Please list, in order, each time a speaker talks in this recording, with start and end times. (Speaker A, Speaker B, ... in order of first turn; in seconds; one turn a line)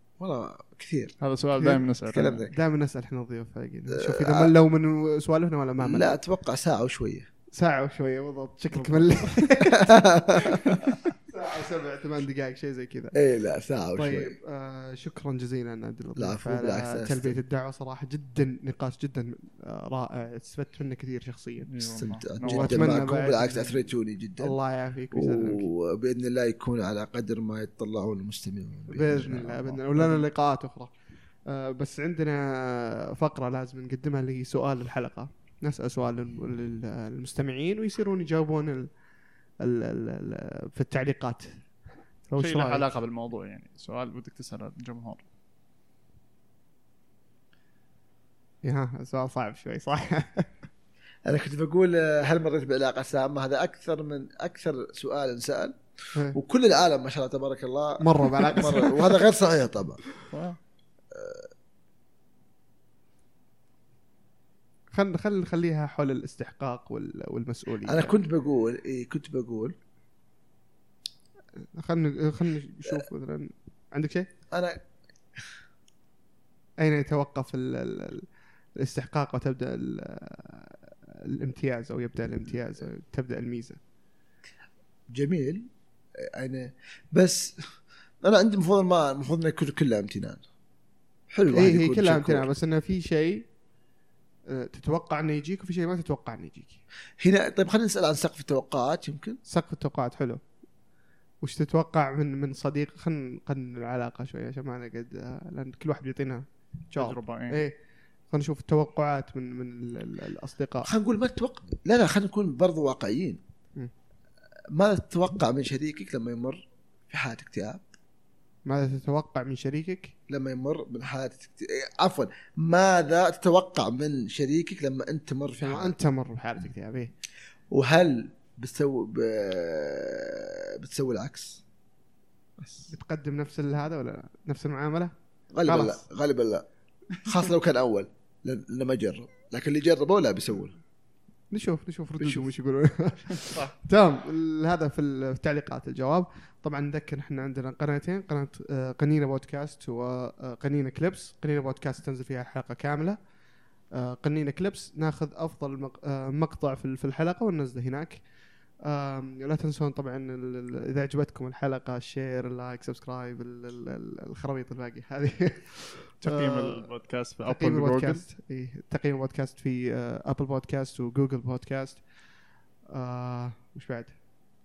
Speaker A: 0.2-2.5
Speaker B: 1.2-2.5
Speaker C: 2.5-6.1
Speaker A: 3.9-4.5
Speaker A: 5.8-7.3
Speaker C: 7.5-9.9
Speaker B: 8.7-9.6
Speaker A: 9.6-10.8
Speaker C: 11.2-13.2
Speaker A: 13.1-14.3
Speaker C: 13.9-21.9
Speaker A: 16.1-17.4
Speaker B: 21.7-22.9
Speaker A: 22.0-24.6
Speaker C: 22.4-23.8
Speaker C: 24.4-25.7
Speaker A: 25.1-30.2
Speaker C: 28.9-39.1
Speaker C: 39.6-42.9
Speaker B: 42.4-45.2
Speaker C: 48.6-50.6
Speaker A: 51.2-55.8
Speaker A: 56.3-60.0
Speaker C: 58.0-59.2
Speaker B: 60.3-60.6
Speaker A: 61.1-61.5
Speaker C: 64.9-68.2
Speaker A: 67.8-69.7
Speaker C: 71.7-74.3
Speaker A: 74.5-74.8
Speaker C: 76.8-83.8
Speaker A: 85.1-87.6
Speaker A: 88.2-90.4
Speaker A: 91.3-92.5
Speaker C: 91.5-93.5
Speaker C: 94.5-96.8
Speaker A: 97.2-99.4
Speaker C: 99.5-100.4
Speaker C: 101.4-110.9
Speaker B: 106.9-107.6
Speaker A: 110.8-113.4
Speaker A: 114.7-117.8
Speaker C: 118.7-120.1
Speaker A: 120.3-126.0
Speaker C: 125.6-127.1
Speaker A: 127.7-131.6
Speaker A: 132.6-132.9
Speaker C: 132.9-135.1
Speaker A: 135.5-136.7
Speaker C: 135.6-136.0
Speaker A: 137.2-140.8
Speaker C: 141.5-166.9
Speaker A: 142.2-142.5
Speaker B: 143.4-143.7
Speaker B: 166.2-168.2
Speaker C: 167.4-172.3
Speaker C: 172.8-174.3